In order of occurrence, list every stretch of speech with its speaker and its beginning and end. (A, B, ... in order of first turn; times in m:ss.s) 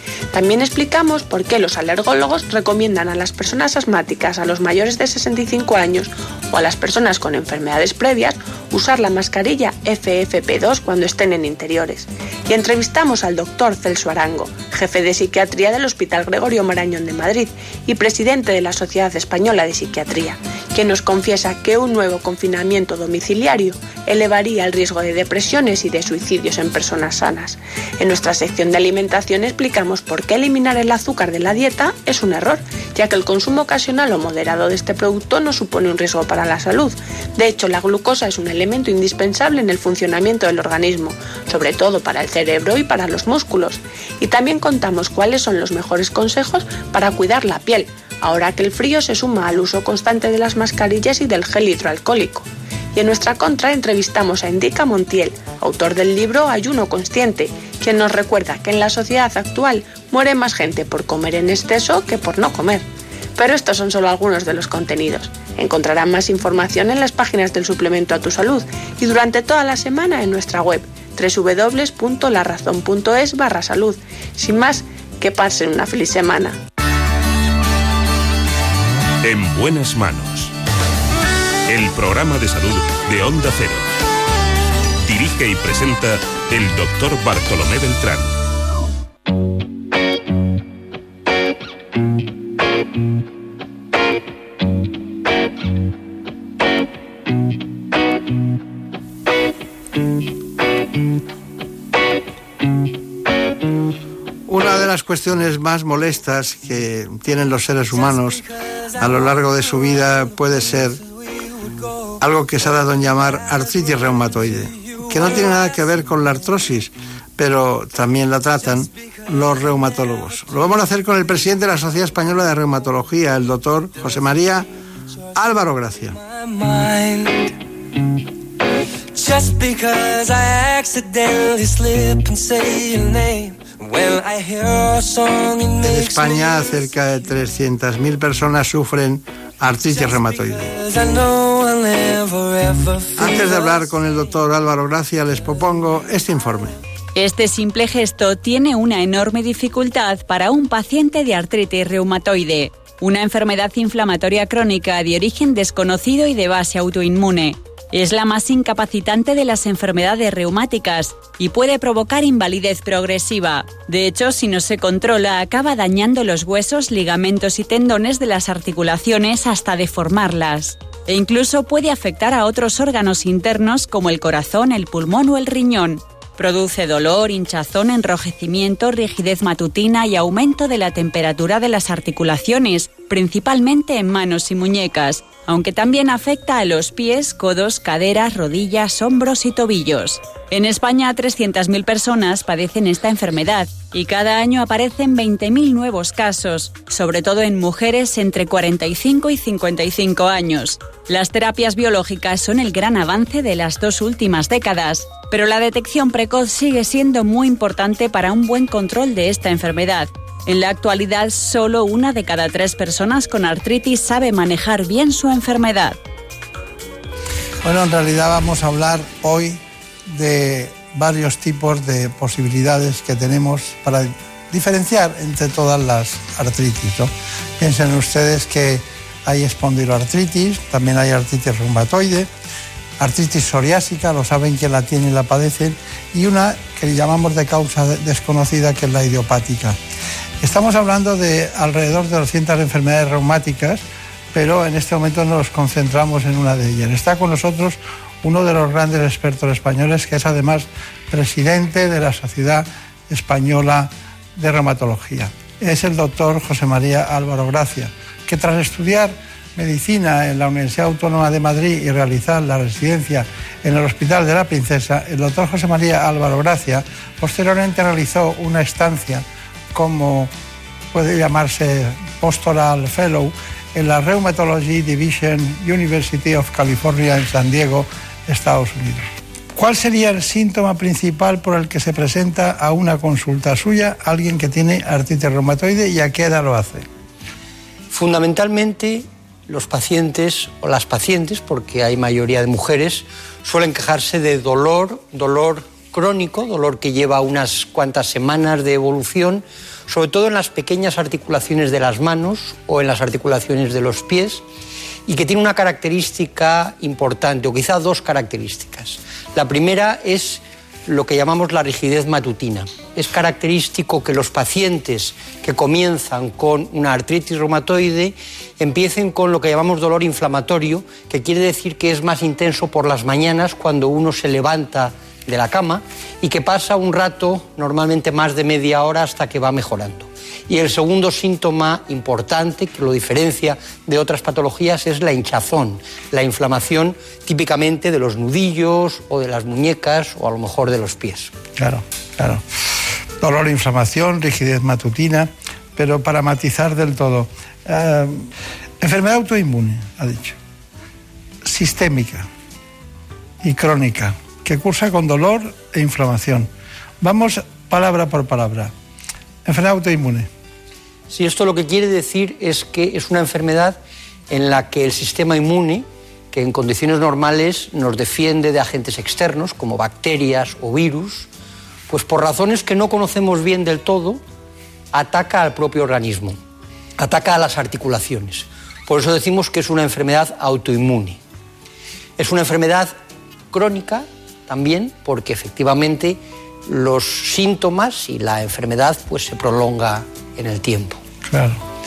0:00.3-1:16.6 A
1:19.2-1:20.5 B
1:21.7-1:23.9 B
1:25.0-1:28.3 B
1:44.5-1:48.4 C
1:49.0-1:51.0 C
1:49.0-1:49.8 D
1:51.4-1:52.2 D
1:52.2-2:04.7 C
1:53.7-1:54.0 D
1:54.8-1:55.6 D
2:05.4-2:06.2 C
2:06.2-2:07.5 D
2:09.2-2:16.9 D
2:15.8-2:20.8 C
2:19.9-2:23.9 D
2:23.2-2:26.8 C
2:27.2-3:36.0 E
3:37.6-3:52.3 C
3:53.0-3:59.8 C
4:00.4-4:30.3 C
4:30.9-4:46.9 C
4:47.9-5:04.4 F
5:05.1-5:41.3 F
5:41.6-5:42.4 C
5:43.2-5:48.3 C
5:48.8-5:50.4 C
5:51.4-5:52.3 C
5:53.4-5:56.5 C
5:57.0-5:58.7 C
5:59.4-6:00.3 C
6:01.1-6:03.8 F
6:04.3-6:11.3 F
6:11.9-6:14.2 F
6:14.9-6:16.4 F
6:17.0-6:21.2 F
6:22.2-6:22.9 F
6:23.5-6:31.0 F
6:31.3-6:31.6 C